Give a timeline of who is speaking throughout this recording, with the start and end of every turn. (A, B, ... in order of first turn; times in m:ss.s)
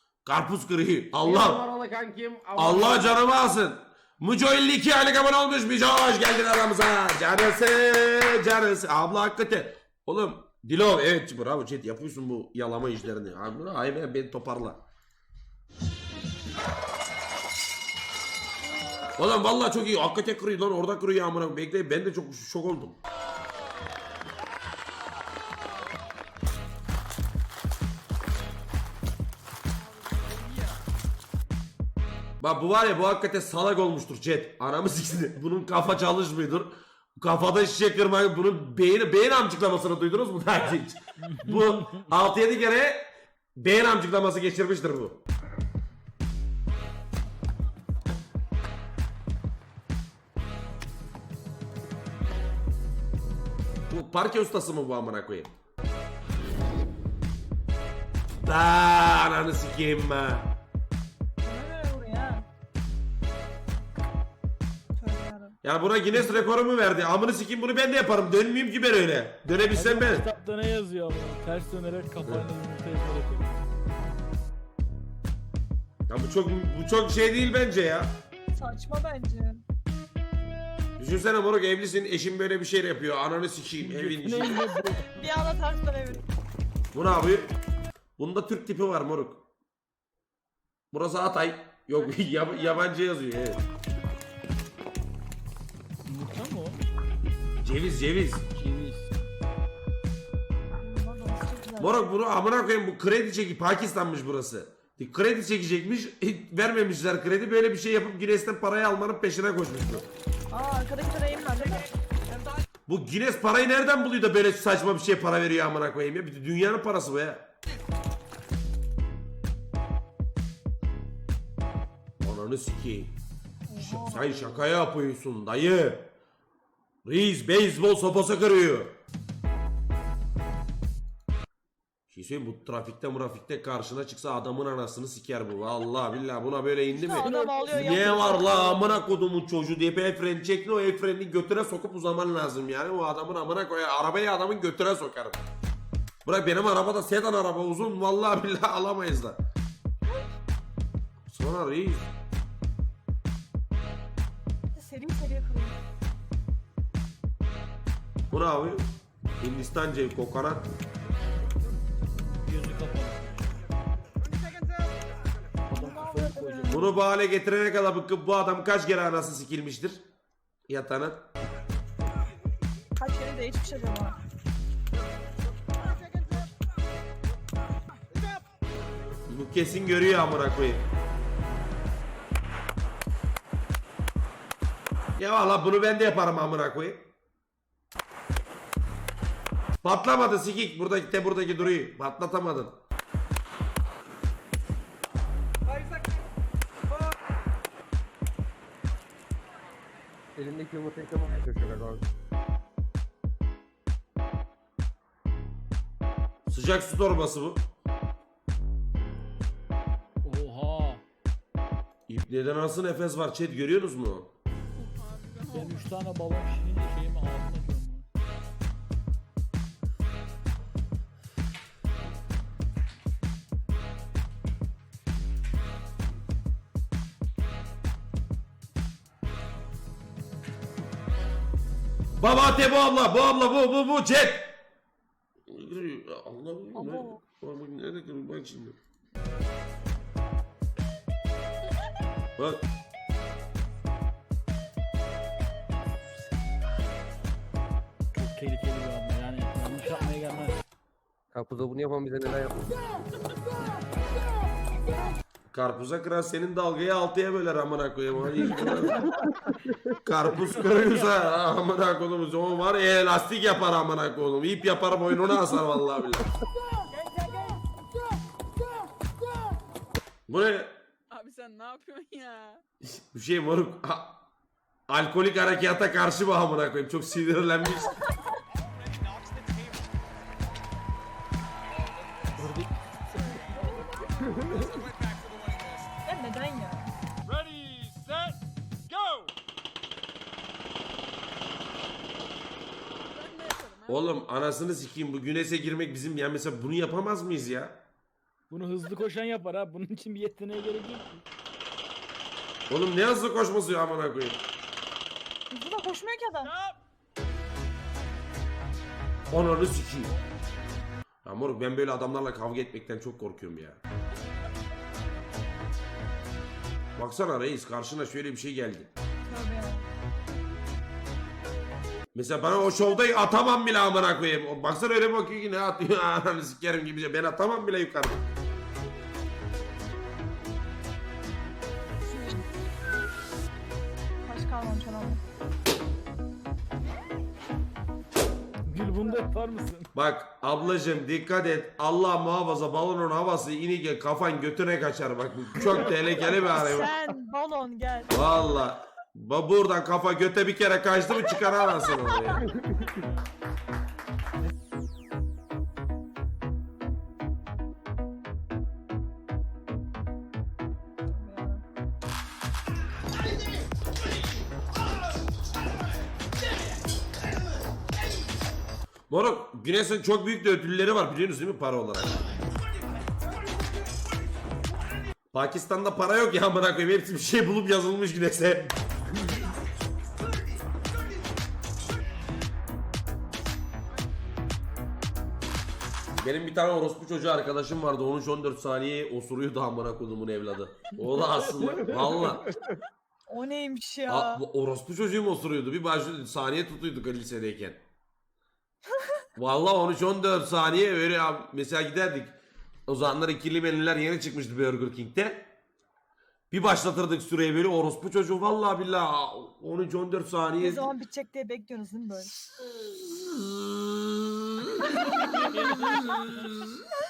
0:00.2-0:01.6 A
0:01.2-0:03.2 B
0:02.6-0:14.8 A
0:19.2-0:23.0 A
0:29.9-0:30.8 C
0:32.4-0:43.0 A
0:41.2-0:41.6 D
0:43.6-0:45.2 A
0:53.9-0:55.5 A
0:58.4-1:00.5 A
1:01.4-1:02.4 E
1:05.0-1:05.6 E
1:05.6-1:10.2 A
1:09.7-1:13.6 D
1:16.1-1:18.1 A
1:18.5-1:19.6 E
1:21.0-1:24.6 A
1:23.8-1:25.1 D
1:24.5-1:26.3 E
1:26.9-1:27.5 A
1:28.2-1:29.4 A
1:30.9-1:33.6 A
1:36.0-1:36.8 D
1:37.6-1:38.4 A
1:38.5-1:39.1 D
1:40.8-1:42.0 E
1:41.8-1:50.0 A
1:50.5-1:51.9 E
1:52.9-1:57.5 A
2:02.2-2:03.1 A
2:03.7-2:04.6 E
2:03.8-2:06.1 A
2:07.0-2:09.0 A
2:12.1-2:25.4 A
2:16.9-2:18.8 E
2:17.2-2:19.0 D
2:26.2-2:29.4 A
2:31.3-2:32.1 A
2:34.7-2:35.8 E
2:38.3-2:38.9 A
2:39.4-2:40.6 A
2:42.2-2:43.6 D
2:45.7-2:46.9 D
2:45.8-2:46.8 E
2:46.7-2:50.0 A
2:50.7-2:51.2 A
2:53.0-2:54.2 E
2:59.3-3:00.8 A
3:05.2-3:07.0 A
3:09.8-3:12.7 A
3:20.4-3:22.0 B
3:26.5-3:27.6 A
3:30.2-3:31.0 D
3:32.1-3:34.3 A
3:34.8-3:35.9 C
3:35.5-3:38.0 D
3:52.2-3:54.5 A
3:55.5-3:58.8 A
3:56.8-3:57.2 E
4:02.4-4:02.6 A
4:08.2-4:10.6 D
4:11.3-4:12.7 B
4:15.5-4:19.1 A
4:18.5-4:19.9 B
4:20.0-4:26.3 A
4:27.1-4:27.6 E
4:30.3-4:30.7 A
4:31.1-4:32.6 C
4:32.8-4:34.2 A
4:34.9-4:38.0 A
4:42.4-4:42.7 D
4:43.2-4:43.8 D
4:46.0-4:46.9 E
4:47.3-4:48.4 D
4:48.9-4:49.3 D
4:53.0-4:54.2 C
4:53.9-4:57.8 A
4:58.5-5:01.2 D
5:02.7-5:04.4 A
5:05.5-5:06.5 E
5:09.3-5:10.1 A
5:11.2-5:13.8 A
5:17.0-5:18.9 A
5:19.3-5:19.9 E
5:22.1-5:28.2 A
5:34.2-5:35.2 E
5:38.7-5:39.9 D
5:39.9-5:46.9 A
5:46.3-5:48.2 E
5:48.1-5:52.5 A
5:51.9-5:52.4 E
6:01.0-6:01.6 E
6:09.1-6:12.2 A
6:15.3-6:18.7 A
6:26.2-6:32.5 A
6:33.3-6:34.4 E
6:34.1-6:37.8 A
6:39.4-6:42.3 A
6:42.9-6:45.5 A
6:46.5-6:50.9 A
6:50.6-6:52.3 E
6:52.7-6:56.8 A
6:55.2-6:56.5 D